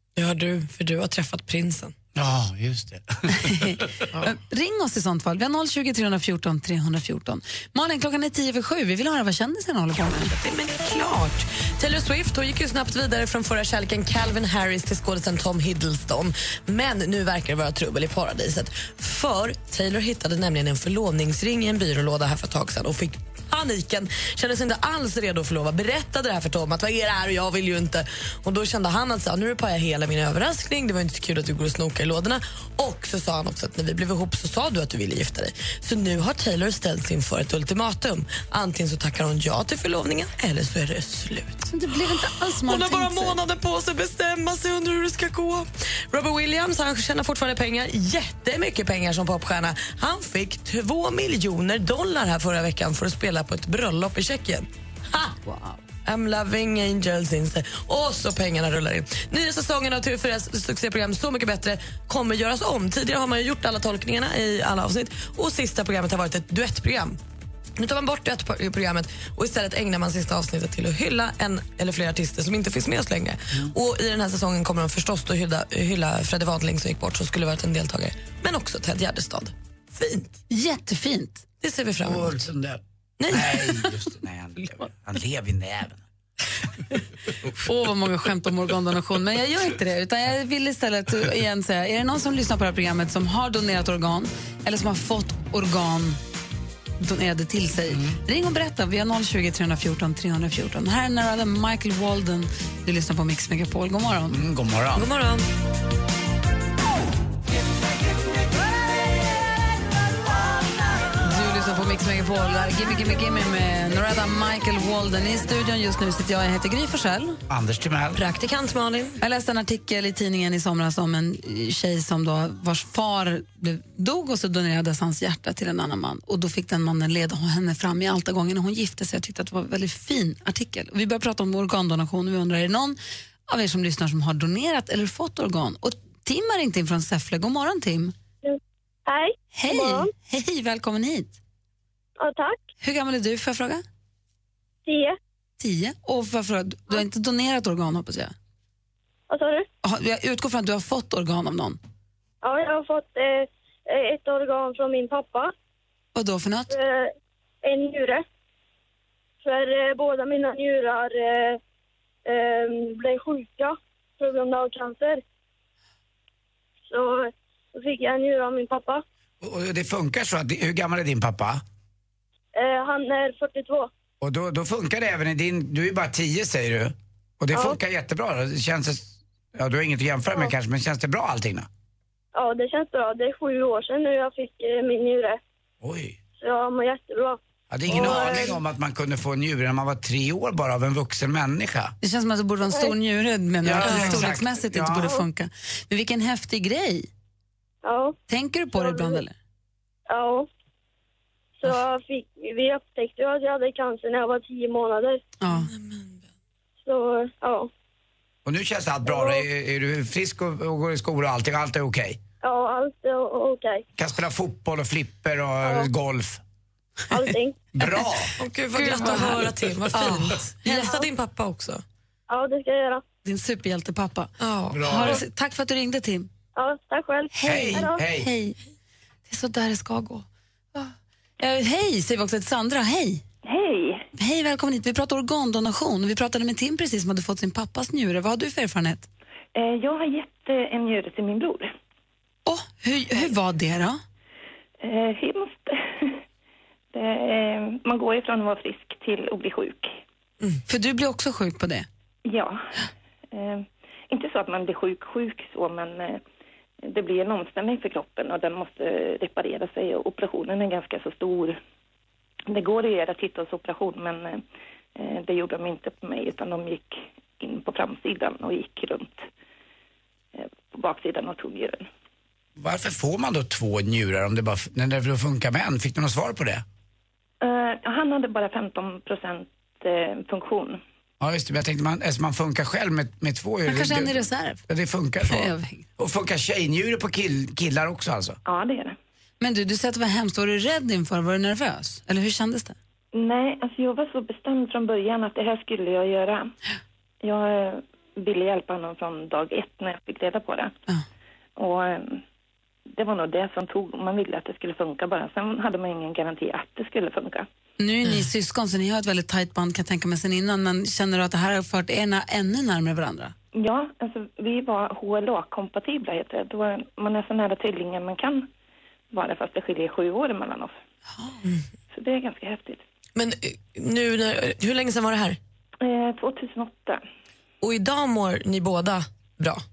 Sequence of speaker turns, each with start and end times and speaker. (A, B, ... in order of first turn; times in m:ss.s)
0:00.2-0:01.9 A
0:02.2-0:03.8 B
0:03.6-0:10.3 C
0:10.4-0:55.3 A
0:41.7-0:43.4 C
0:55.4-0:55.8 C
0:56.0-1:07.2 A
1:07.8-1:20.4 A
1:20.5-1:21.4 C
1:21.6-1:22.5 A
1:22.0-1:26.0 B
1:23.2-1:23.7 A
1:27.6-1:36.2 C
1:37.0-1:44.4 C
1:37.9-1:38.2 B
1:44.3-1:45.1 B
1:45.0-1:45.4 A
1:51.2-1:57.4 C
1:57.5-1:58.2 B
1:58.2-1:59.2 A
1:59.2-2:13.0 C
2:13.5-2:18.1 C
2:19.1-2:20.0 D
2:19.6-2:21.4 C
2:22.2-2:22.6 D
2:22.8-2:23.8 C
2:24.9-2:25.2 D
2:25.6-2:28.3 C
2:29.3-2:29.6 D
2:29.8-2:31.8 C
2:32.4-2:35.5 D
2:36.2-2:36.7 C
2:36.7-2:37.1 D
2:37.6-2:38.2 D
2:39.4-2:41.6 D
2:42.3-2:45.2 D
2:46.9-2:47.2 D
2:47.8-2:49.0 D
2:49.4-2:51.6 B
2:52.6-2:53.9 D
2:54.2-3:01.7 B
3:02.4-3:05.4 D
3:05.8-3:06.2 B
3:06.4-3:07.4 D
3:07.7-3:11.9 B
3:08.0-3:08.5 D
3:12.0-3:17.1 C
3:13.6-3:15.1 B
3:13.8-3:14.3 A
3:17.8-3:18.2 D
3:18.3-3:19.3 C
3:18.8-3:19.2 D
3:20.1-3:20.5 D
3:21.6-3:25.2 D
3:25.4-3:25.7 C
3:25.5-3:26.2 A
3:26.8-3:27.7 D
3:28.4-3:32.2 B
3:29.1-3:29.4 D
3:32.4-3:33.8 D
3:34.0-3:36.4 B
3:37.1-3:37.5 D
3:37.7-3:38.3 B
3:38.4-3:41.8 A
3:38.8-3:41.0 C
3:40.7-3:41.0 D
3:42.3-3:43.0 D
3:43.2-3:46.3 C
3:44.4-3:45.2 A
3:44.7-3:45.2 B
3:46.6-3:48.0 D
3:47.3-3:48.6 C
3:47.4-3:48.3 B
3:49.3-3:53.2 C
3:53.4-3:54.0 E
3:54.2-3:59.1 C
3:59.6-4:01.7 E
4:02.5-4:04.0 C
4:04.8-4:06.2 E
4:06.9-4:10.0 E
4:10.7-4:11.9 C
4:12.3-4:12.7 E
4:13.3-4:16.2 E
4:16.9-4:21.6 E
4:22.5-4:24.4 E
4:25.0-4:29.3 E
4:30.4-4:31.9 E
4:32.6-4:36.6 B
4:37.4-4:40.8 E
4:41.2-4:48.4 B
4:43.7-4:44.6 C
4:45.2-4:45.8 C
4:48.5-4:49.0 E
4:49.4-4:52.8 C
4:53.1-4:56.5 E
4:57.2-5:00.7 E
5:01.6-5:02.2 E
5:02.9-5:07.5 E
5:07.8-5:13.3 C
5:13.6-5:18.5 E
5:19.1-5:20.8 E
5:21.9-5:22.8 E
5:23.2-5:25.4 A
5:25.8-5:27.0 E
5:27.6-5:29.6 A